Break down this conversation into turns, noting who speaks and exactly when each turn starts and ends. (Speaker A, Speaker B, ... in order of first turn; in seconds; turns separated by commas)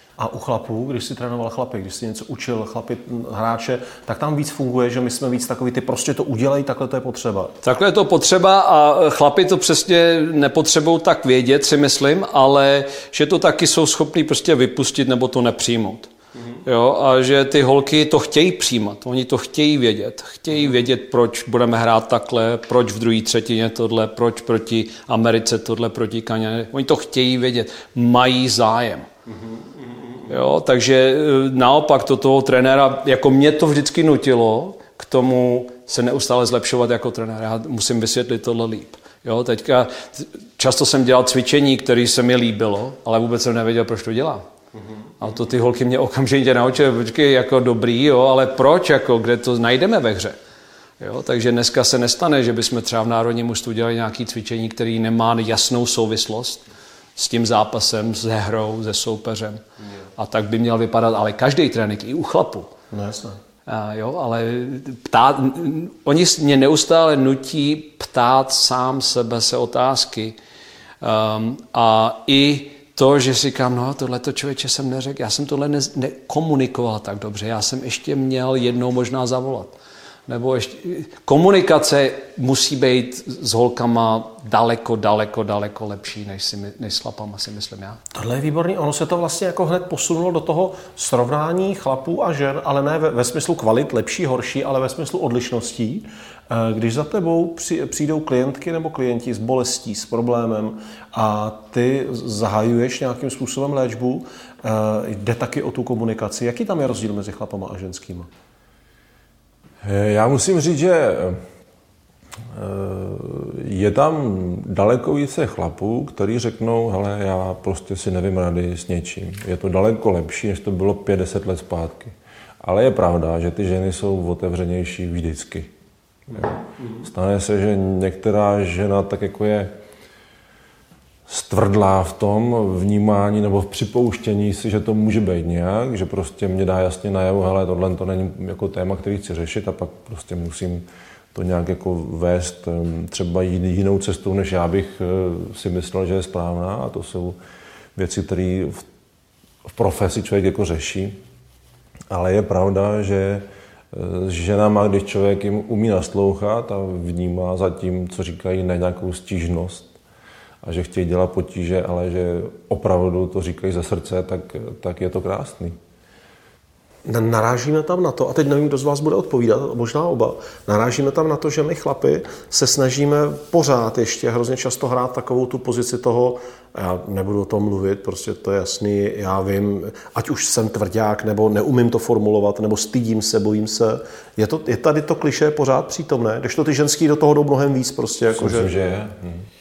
Speaker A: 0.2-7.5, Speaker B: 7.6-16.1, Speaker B: 16.6-29.1, Speaker B: 30.3-44.4, Speaker B: 45.2-50.4, Speaker B: 51.0-56.6, Speaker B: 57.2-59.6, Speaker B: 60.2-62.7, Speaker A: 62.9-63.4, Speaker B: 63.7-70.4, Speaker B: 71.0-79.8, Speaker B: 80.3-88.0, Speaker A: 88.1-108.3, Speaker C: 109.8-111.4, Speaker C: 112.5-125.7, Speaker C: 126.3-129.7, Speaker C: 131.3-147.4, Speaker C: 148.0-148.8, Speaker C: 149.7-151.2, Speaker C: 152.1-159.9, Speaker C: 160.6-165.8, Speaker A: 167.1-188.7, Speaker C: 188.3-189.5